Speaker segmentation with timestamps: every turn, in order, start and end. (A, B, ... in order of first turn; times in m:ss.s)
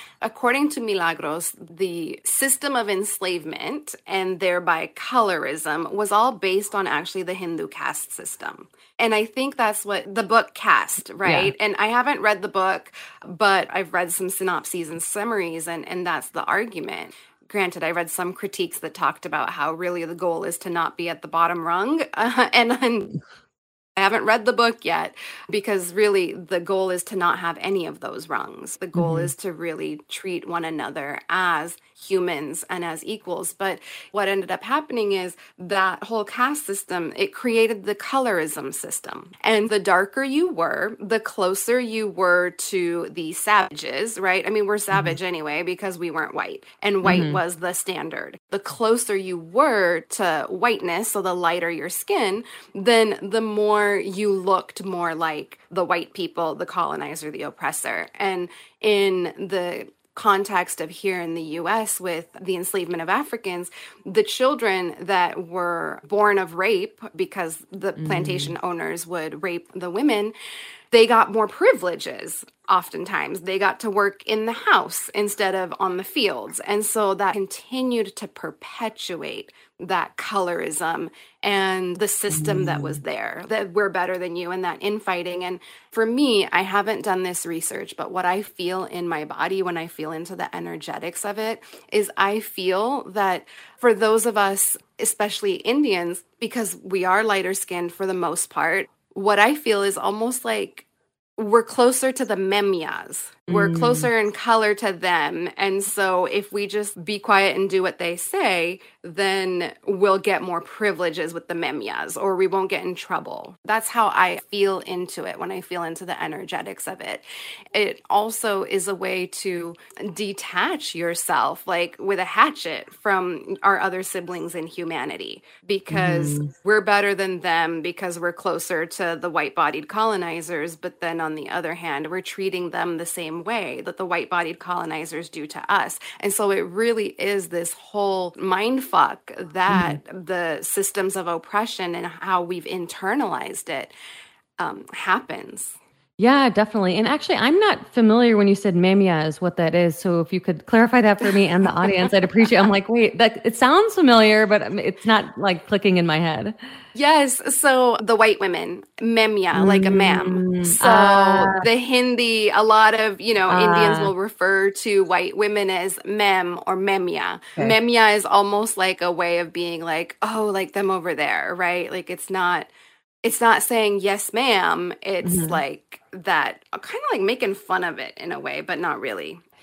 0:00.2-0:23.2 A
0:11.2-0:11.5 B
0:24.0-1:10.3 A
0:29.0-0:29.3 B
0:44.9-0:45.2 B
0:47.0-0:47.4 B
1:08.0-1:08.5 B
1:10.9-1:40.9 A
1:22.3-1:23.0 B
1:41.4-2:23.9 A
1:43.5-1:44.1 B
2:05.9-2:06.5 B
2:19.7-2:20.0 B
2:24.6-2:25.8 A
2:26.2-2:36.6 B
2:31.7-2:32.5 A
2:36.9-2:52.7 A
2:39.6-2:41.7 B
2:43.5-2:44.1 B
2:53.2-2:59.4 A
2:55.2-2:55.6 B